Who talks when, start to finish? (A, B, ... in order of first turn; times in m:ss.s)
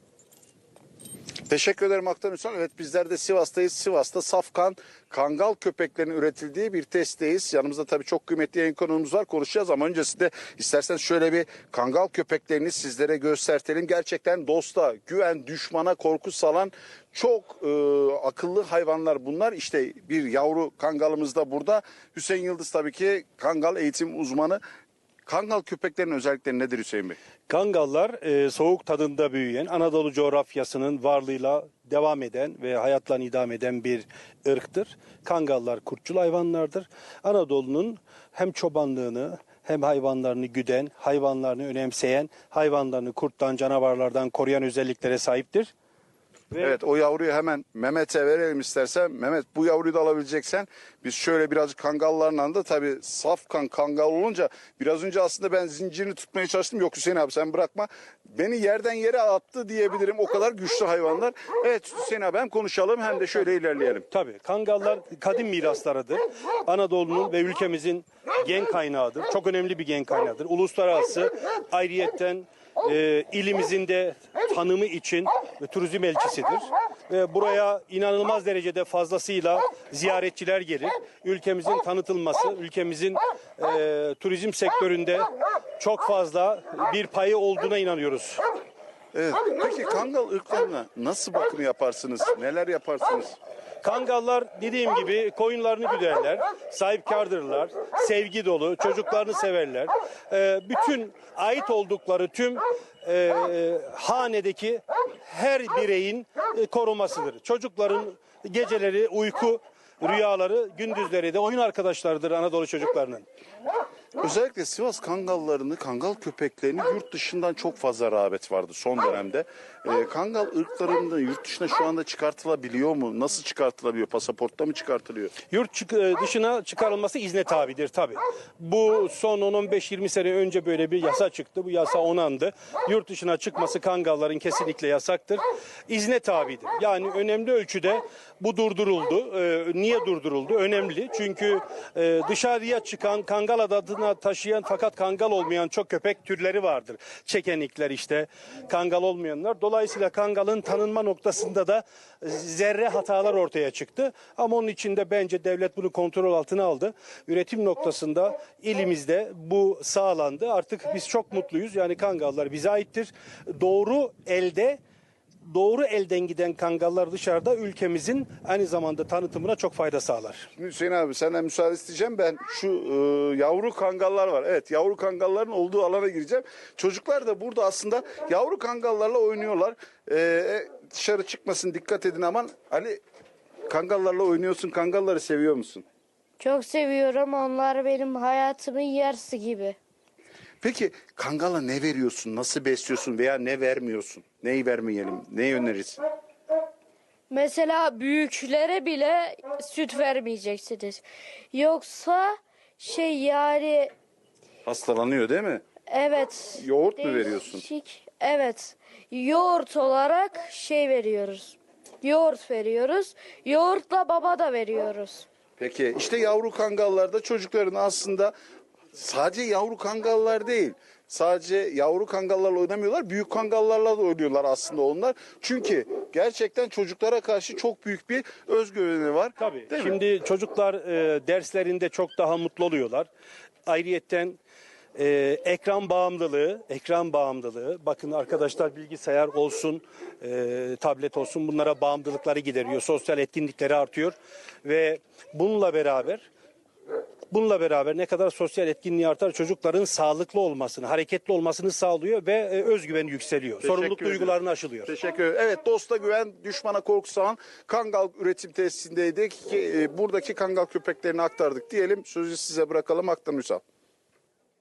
0:01.5-0:24.6 A
0:25.2-0:27.2 A
0:27.5-0:45.7 B
0:46.5-0:46.8 B
0:46.6-1:04.1 A
1:04.1-1:28.4 B
1:29.1-1:33.4 A
1:33.8-1:53.2 B
1:54.2-2:05.3 A
2:05.5-2:44.8 B
2:45.4-2:50.5 B
2:50.6-3:03.0 A
3:03.7-3:05.8 A
3:06.4-3:09.8 C
3:10.6-3:16.0 A
3:17.3-3:23.9 C
3:24.6-3:25.6 A
3:25.9-3:35.2 C
3:26.6-3:27.6 A
3:35.6-3:38.3 A
3:38.9-3:50.0 A
3:49.4-3:53.1 B
3:53.7-3:54.4 B
3:55.0-4:06.3 B
4:07.3-4:14.9 B
4:13.6-4:23.6 A